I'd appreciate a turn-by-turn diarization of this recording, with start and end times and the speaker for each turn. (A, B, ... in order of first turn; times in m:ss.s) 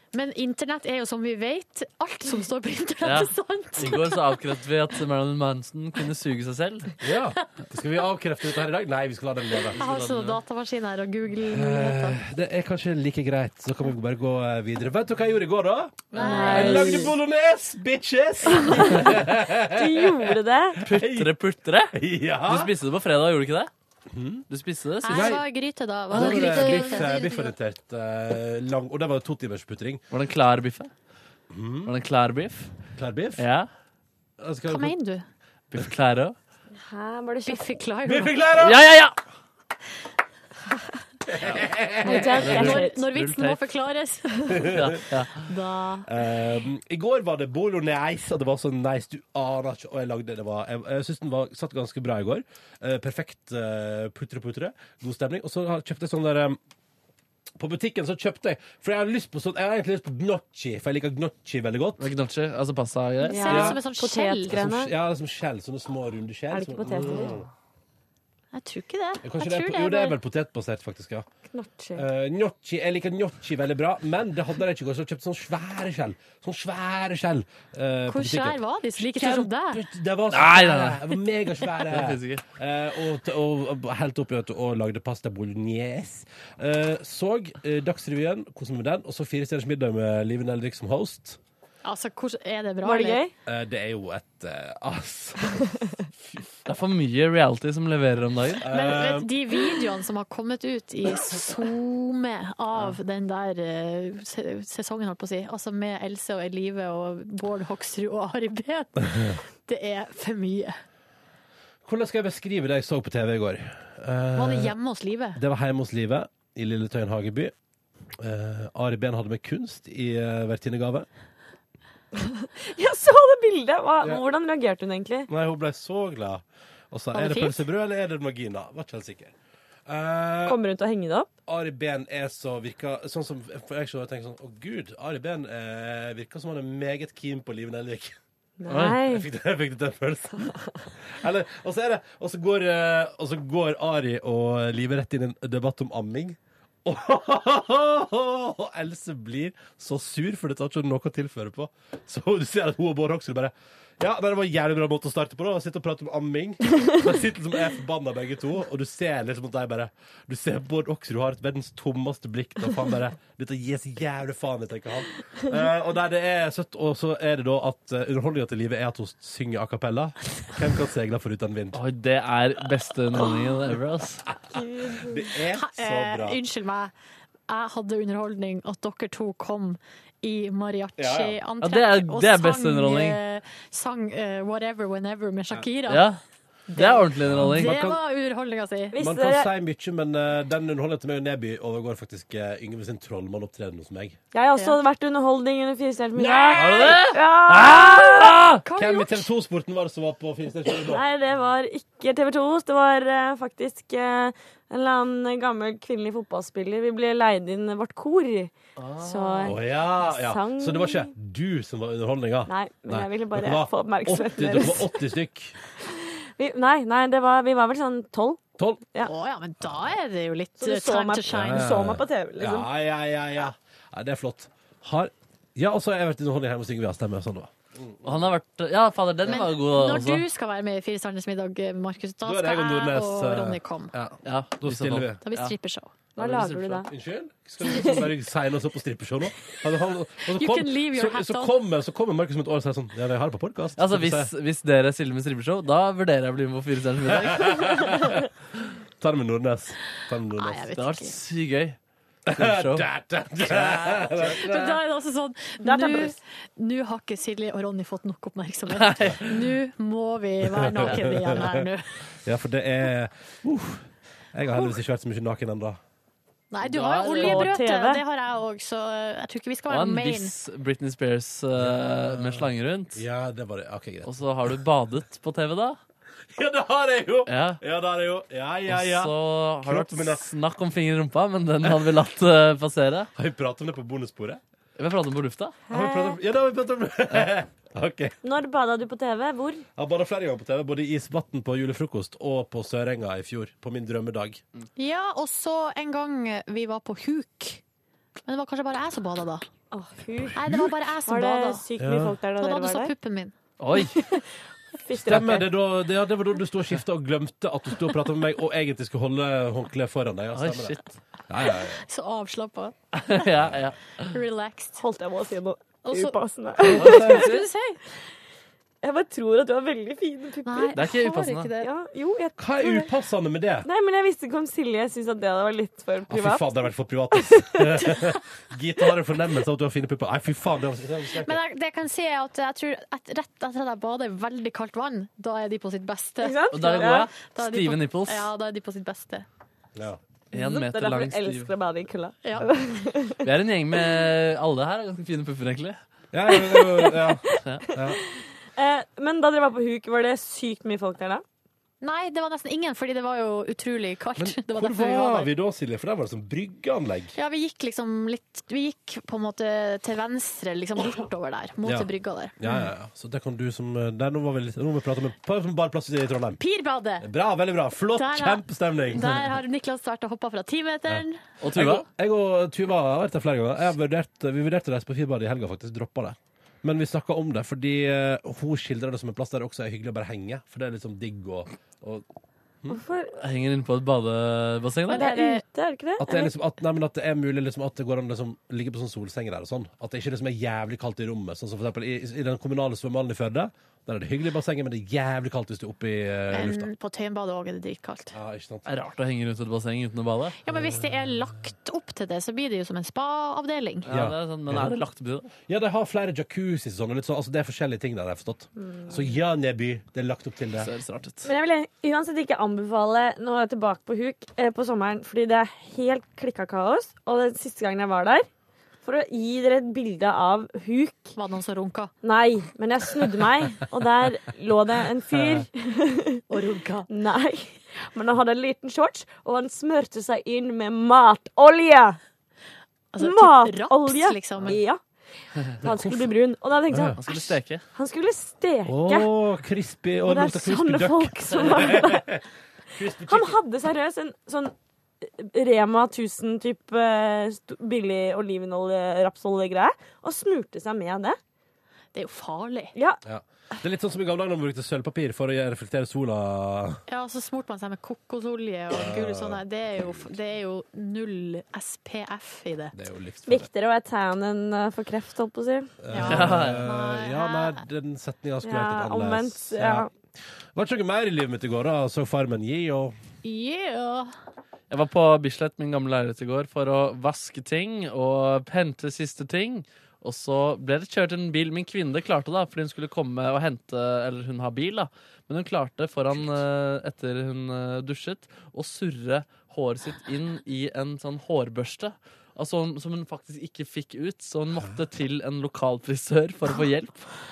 0:00.1-0:04.2 A
0:03.0-0:06.9 B
0:07.0-0:09.8 C
0:09.7-0:10.4 B
0:09.8-0:12.2 A
0:11.5-0:21.3 C
0:16.1-0:17.0 B
0:16.2-0:17.0 A
0:16.2-0:17.1 D
0:18.5-0:19.1 D
0:19.6-0:20.8 D
0:20.8-0:21.9 B
0:21.9-0:22.7 C
0:22.4-0:23.7 B
0:24.1-0:24.4 C
0:24.5-0:25.4 B
0:25.0-0:27.5 A
0:25.1-0:25.4 C
0:26.1-0:30.0 C
0:26.1-0:26.8 B
0:26.8-0:27.1 D
0:30.1-0:30.9 B
0:31.5-0:31.9 C
0:31.8-0:32.7 B
0:32.9-0:33.4 C
0:33.4-0:33.7 B
0:34.4-0:34.9 C
0:34.7-0:35.2 A
0:35.7-0:36.4 B
0:36.8-0:37.7 D
0:37.4-0:38.4 A
0:38.0-0:38.8 C
0:38.6-0:39.2 B
0:41.3-0:42.6 C
0:42.0-0:43.0 D
0:42.2-0:44.8 A
0:42.3-0:43.6 B
0:44.5-0:45.0 C
0:44.7-0:45.4 B
0:45.4-0:46.1 A
0:46.0-0:56.6 C
0:57.6-1:02.1 C
1:02.0-1:03.6 B
1:03.2-1:04.9 D
1:03.3-1:04.5 A
1:03.5-1:03.8 C
1:04.5-1:07.5 C
1:06.5-1:07.4 D
1:08.5-1:10.2 A
1:09.2-1:11.2 C
1:11.5-1:12.0 D
1:11.9-1:31.4 C
1:18.1-1:19.8 A
1:20.3-1:21.1 B
1:21.7-1:22.4 B
1:31.8-1:33.2 A
1:32.8-1:33.3 D
1:33.4-1:35.7 C
1:36.6-1:38.6 B
1:38.6-1:39.3 C
1:38.7-1:50.7 A
1:51.8-1:54.8 C
1:54.3-1:55.4 A
1:55.3-1:57.5 C
1:58.2-2:01.1 C
2:02.2-2:05.3 D
2:05.3-2:09.3 C
2:07.1-2:07.6 A
2:09.9-2:10.6 C
2:10.4-2:11.3 D
2:11.4-2:18.2 C
2:18.6-2:19.3 D
2:18.7-2:19.0 B
2:18.8-2:51.8 C
2:51.7-2:54.2 B
2:54.3-2:56.4 C
2:54.5-2:55.3 D
2:55.5-2:56.9 A
2:57.5-3:06.0 A
3:01.0-3:01.4 C
3:01.6-3:03.2 B
3:05.9-3:06.2 B
3:06.7-3:08.9 A
3:06.7-3:07.7 B
3:07.2-3:08.0 C
3:08.9-3:09.5 D
3:09.0-3:14.2 C
3:14.3-3:18.3 D
3:16.2-3:18.6 B
3:16.4-3:18.1 C
3:18.6-3:19.3 A
3:18.7-3:21.0 C
3:20.9-3:31.1 D
3:28.8-3:29.5 B
3:29.4-3:35.6 C
3:32.5-3:35.0 D
3:36.4-3:38.4 D
3:39.0-3:41.7 A
3:40.6-3:42.7 D
3:41.2-3:48.3 C
3:48.0-3:50.2 B
3:49.3-3:53.9 A
3:52.2-3:55.2 C
3:54.2-3:55.5 B
3:55.2-3:55.9 A
3:56.2-3:56.8 B
3:56.2-3:56.9 D
3:56.2-4:04.3 C
3:57.6-3:58.1 D
4:00.3-4:01.5 A
4:03.8-4:08.0 B
4:07.1-4:08.2 C
4:09.0-4:10.7 C
4:10.4-4:11.2 A
4:10.8-4:11.8 B
4:12.3-4:14.8 C
4:12.3-4:12.8 B
4:14.2-4:21.9 A
4:15.6-4:16.2 D
4:18.8-4:19.2 B
4:20.4-4:21.6 C
4:22.2-4:25.8 C
4:26.5-4:30.3 A
4:26.6-4:27.5 B
4:27.2-4:28.0 D
4:29.7-4:33.0 B
4:31.6-4:34.1 C
4:34.0-4:35.8 B
4:36.3-4:40.2 C
4:37.3-4:37.6 B
4:38.7-4:43.1 B
4:43.2-4:44.4 C
4:44.8-4:45.6 B
4:45.7-4:46.2 D
4:45.7-4:48.1 C
4:48.2-4:49.6 D
4:49.8-4:54.4 C
4:54.8-4:57.6 A
4:58.2-4:59.4 A
4:59.7-5:00.4 D
5:00.2-5:00.7 C
5:00.4-5:01.6 A
5:01.0-5:02.9 D
5:01.8-5:02.2 C
5:02.4-5:03.3 A
5:03.6-5:04.0 B
5:03.7-5:05.5 D
5:04.9-5:11.8 C
5:10.3-5:11.0 B
5:11.8-5:13.2 A
5:12.9-5:14.1 B
5:13.4-5:13.7 C
5:14.1-5:14.8 A
5:14.8-5:17.1 D
5:15.8-5:17.8 A
5:16.6-5:17.3 C
5:16.8-5:17.5 B
5:18.8-5:20.9 D
5:20.4-5:21.7 A
5:20.7-5:21.5 B
5:21.6-5:22.9 D
5:22.4-5:23.7 C
5:23.6-5:26.6 D
5:26.1-5:31.4 C
5:27.1-5:28.1 D
5:31.2-5:39.2 A
5:36.2-5:37.1 D
5:36.5-5:38.3 B
5:39.8-5:40.0 C
5:40.3-5:41.5 B
5:40.3-5:43.2 D
5:42.2-5:42.5 A
5:43.2-5:45.8 B
5:46.1-5:48.0 C
5:46.3-5:51.2 D
5:51.8-5:55.3 A
5:54.2-5:57.1 C
5:57.1-6:02.6 A
6:02.4-6:06.4 C
6:06.4-6:07.1 A
6:07.0-6:09.2 C
6:07.9-6:11.2 A
6:10.9-6:22.0 C
6:11.4-6:11.8 B
6:22.7-6:23.2 D
6:23.2-6:25.1 B
6:24.9-6:26.3 D
6:24.9-6:25.4 A
6:26.0-6:36.7 C
6:36.3-6:38.1 A
6:38.1-6:38.7 C
6:38.7-6:40.4 B
6:40.4-6:43.8 A
6:40.5-6:41.3 C
6:43.8-6:45.3 B
6:43.9-6:44.8 C
6:45.5-6:50.7 C
6:48.6-6:48.9 D
6:50.6-6:51.3 B
6:51.2-6:58.3 D
6:58.8-7:01.1 D
7:01.1-7:01.9 A
7:02.0-7:06.2 D
7:05.1-7:05.4 C
7:06.3-7:06.9 A
7:06.9-7:12.0 D
7:12.9-7:14.6 A
7:13.0-7:14.8 D
7:15.6-7:16.1 C
7:15.6-7:17.2 D
7:16.7-7:17.0 C
7:17.0-7:17.6 B
7:17.7-7:19.1 D
7:18.6-7:23.4 C
7:20.0-7:22.2 D
7:21.3-7:21.8 B
7:23.0-7:31.2 D
7:31.9-7:32.7 A
7:32.7-7:33.0 D
7:33.0-7:36.8 C
7:36.9-7:42.7 A
7:38.7-7:40.0 C
7:42.7-7:43.5 C
7:43.2-7:45.7 D
7:45.8-7:49.9 C
7:45.9-7:47.6 A
7:46.0-7:46.6 B
7:48.4-7:49.9 D
7:50.5-7:52.9 C
7:53.2-7:54.1 A
7:54.7-8:17.1 B
8:06.1-8:06.4 C